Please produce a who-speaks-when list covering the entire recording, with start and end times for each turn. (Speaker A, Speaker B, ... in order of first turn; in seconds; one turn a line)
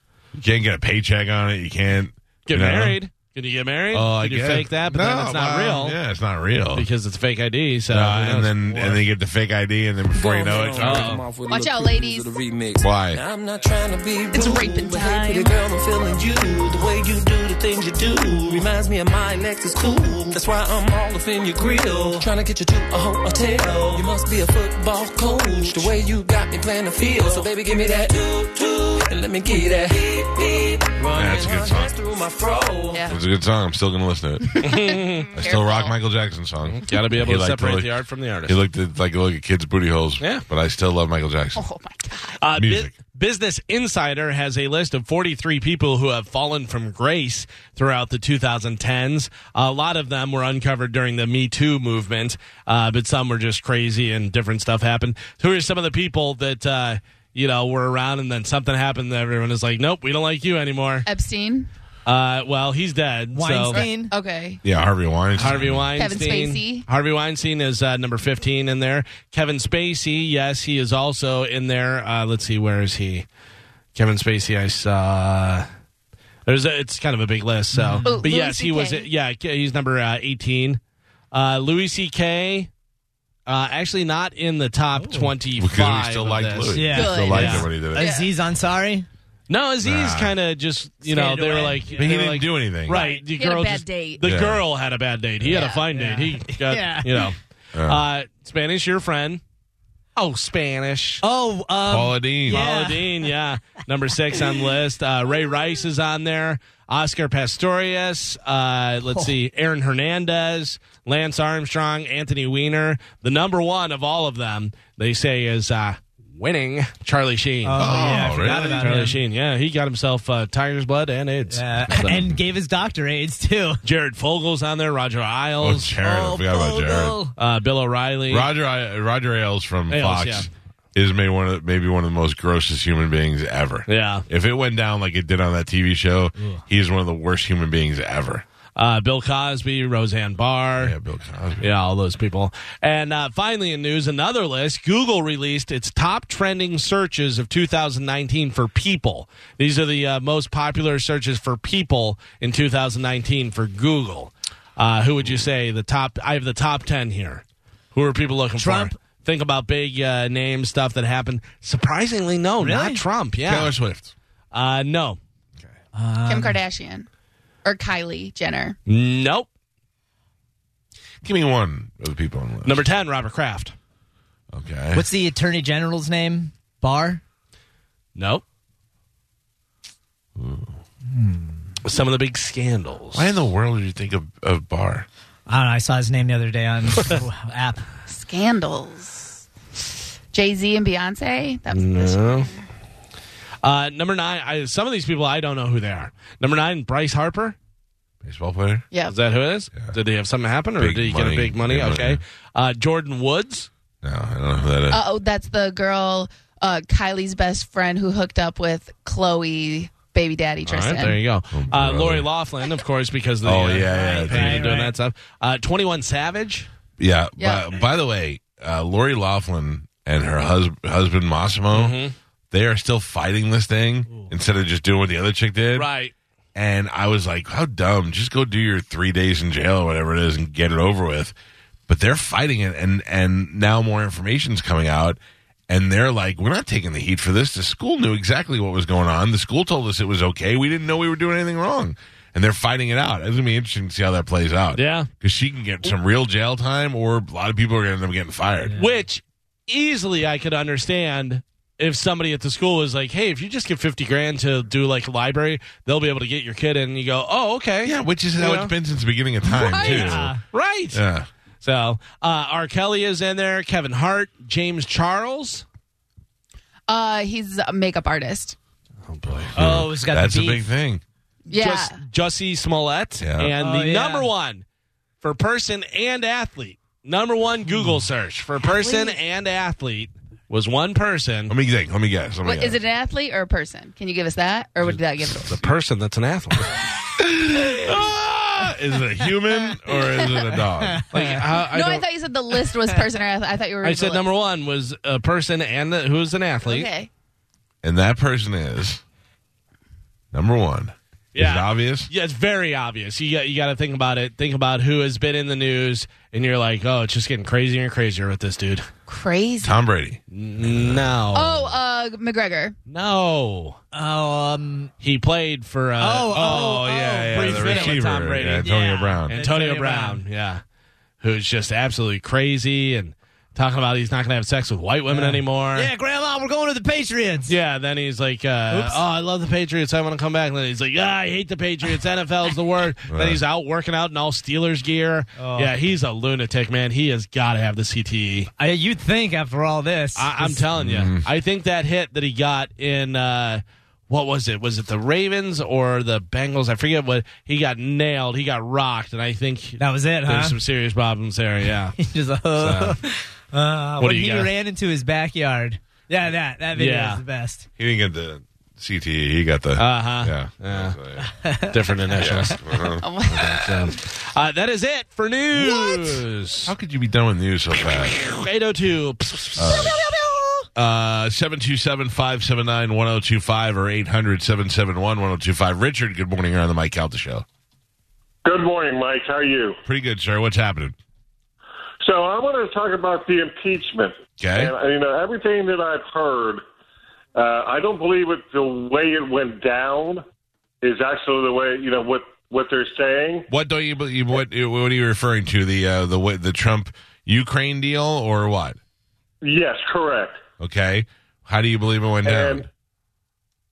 Speaker A: 0.3-3.0
Speaker B: 2.5-6.0
Speaker A: 3.9-6.9
Speaker B: 6.7-9.0
Speaker A: 7.9-11.2
Speaker C: 10.1-33.1
Speaker B: 10.8-11.2
Speaker D: 11.4-12.4
Speaker A: 12.8-13.2
Speaker D: 14.3-15.6
Speaker A: 31.1-31.9
Speaker A: 33.0-41.6
Speaker B: 34.6-35.3
Speaker D: 34.6-35.9
Speaker B: 36.7-38.6
Speaker B: 40.2-40.4
Speaker D: 41.5-42.3
Speaker B: 42.4-61.0
Speaker A: 42.5-42.9
Speaker D: 61.0-61.7
Speaker B: 62.0-63.9
Speaker E: 63.3-64.1
Speaker D: 63.7-64.6
Speaker A: 64.6-65.9
Speaker B: 65.4-73.3
Speaker D: 66.0-66.8
Speaker B: 73.9-75.7
Speaker B: 76.5-80.8
Speaker E: 77.7-78.3
Speaker D: 78.0-79.1
Speaker B: 81.3-82.7
Speaker B: 83.5-87.7
Speaker E: 85.0-85.3
Speaker A: 85.6-88.1
Speaker E: 86.7-89.1
Speaker D: 86.9-88.3
Speaker B: 89.5-99.4
Speaker A: 89.8-90.3
Speaker E: 91.0-91.9
Speaker A: 92.0-93.0
Speaker D: 92.9-94.2
Speaker A: 94.2-94.6
Speaker D: 95.5-95.8
Speaker E: 95.9-97.3
Speaker A: 97.7-98.0
Speaker B: 100.2-101.2
Speaker E: 101.2-103.8
Speaker A: 101.9-102.6
Speaker B: 101.9-122.3
Speaker E: 117.6-119.2
Speaker A: 117.8-118.8
Speaker E: 121.5-123.8
Speaker B: 123.8-125.9
Speaker A: 125.6-127.2
Speaker E: 126.0-127.3
Speaker B: 127.4-128.5
Speaker A: 128.3-138.4
Speaker B: 129.9-130.5
Speaker B: 133.9-134.2
Speaker B: 138.8-140.9
Speaker A: 140.8-141.7
Speaker B: 141.6-157.4
Speaker B: 157.9-163.7
Speaker E: 158.6-158.9
Speaker E: 162.6-163.0
Speaker A: 163.4-164.1
Speaker B: 164.5-165.2
Speaker E: 165.9-166.6
Speaker D: 166.3-167.1
Speaker D: 167.6-168.8
Speaker B: 168.9-169.5
Speaker A: 171.2-172.8
Speaker B: 172.6-173.7
Speaker A: 174.5-175.1
Speaker E: 174.9-177.2
Speaker B: 178.2-178.4
Speaker A: 180.4-180.8
Speaker E: 181.1-181.6
Speaker B: 181.8-183.3
Speaker A: 183.1-185.1
Speaker E: 185.5-187.8
Speaker D: 188.1-189.4
Speaker D: 190.3-192.5
Speaker B: 191.7-192.5
Speaker B: 193.6-197.6
Speaker A: 198.2-198.9
Speaker B: 199.1-203.7
Speaker A: 200.8-202.2
Speaker A: 204.0-205.0
Speaker D: 204.9-211.2
Speaker B: 210.7-216.7
Speaker A: 211.5-212.3
Speaker A: 213.4-214.7
Speaker E: 213.7-214.9
Speaker A: 217.0-222.0
Speaker D: 217.4-217.7
Speaker B: 221.7-222.1
Speaker A: 222.5-225.9
Speaker B: 225.7-226.1
Speaker A: 226.6-231.3
Speaker A: 231.9-248.8
Speaker B: 244.7-245.1
Speaker B: 248.8-258.7
Speaker A: 257.8-260.3
Speaker D: 259.6-260.1
Speaker B: 259.8-261.0
Speaker E: 259.8-260.4
Speaker A: 260.9-261.3
Speaker B: 261.6-265.6
Speaker D: 266.9-268.6
Speaker B: 269.1-269.5
Speaker A: 269.4-271.0
Speaker E: 269.6-270.6
Speaker D: 271.5-272.0
Speaker B: 271.5-274.6
Speaker A: 273.2-273.5
Speaker E: 273.6-274.3
Speaker B: 275.2-281.5
Speaker D: 278.8-279.1
Speaker A: 281.5-282.8
Speaker D: 282.4-285.4
Speaker B: 285.4-286.7
Speaker A: 287.2-291.0
Speaker E: 290.9-291.4
Speaker B: 291.1-292.1
Speaker D: 291.7-294.3
Speaker B: 293.8-296.9
Speaker D: 296.6-297.1
Speaker A: 297.8-299.0
Speaker A: 300.3-302.1
Speaker B: 301.3-308.9
Speaker D: 309.1-309.8
Speaker A: 309.6-311.1
Speaker B: 310.3-311.7
Speaker D: 311.3-312.7
Speaker B: 312.9-313.8
Speaker E: 313.9-314.9
Speaker B: 315.0-318.6
Speaker E: 316.0-320.2
Speaker A: 316.3-319.4
Speaker B: 319.3-320.6
Speaker B: 321.2-325.9
Speaker E: 325.1-327.5
Speaker B: 327.5-338.5
Speaker E: 328.7-329.0
Speaker A: 333.1-333.4
Speaker E: 335.4-335.7
Speaker E: 338.6-340.6
Speaker B: 340.1-351.9
Speaker A: 340.8-341.2
Speaker E: 349.8-350.6
Speaker E: 352.0-357.6
Speaker A: 352.6-353.0
Speaker B: 354.0-354.5
Speaker B: 356.7-357.2
Speaker A: 357.8-361.3
Speaker B: 359.8-361.0
Speaker E: 361.2-361.8
Speaker B: 361.7-362.6
Speaker A: 362.1-363.5
Speaker D: 363.0-363.5
Speaker B: 363.4-366.7
Speaker A: 366.6-368.2
Speaker B: 368.2-369.9
Speaker A: 369.6-370.0
Speaker E: 369.6-370.7
Speaker A: 370.7-377.4
Speaker F: 378.4-379.8
Speaker A: 379.9-380.9
Speaker F: 382.0-386.6
Speaker A: 384.4-384.7
Speaker F: 387.3-390.2
Speaker F: 390.8-393.5
Speaker A: 393.5-398.8
Speaker F: 399.4-400.4
Speaker A: 400.6-402.6
Speaker F: 402.2-402.6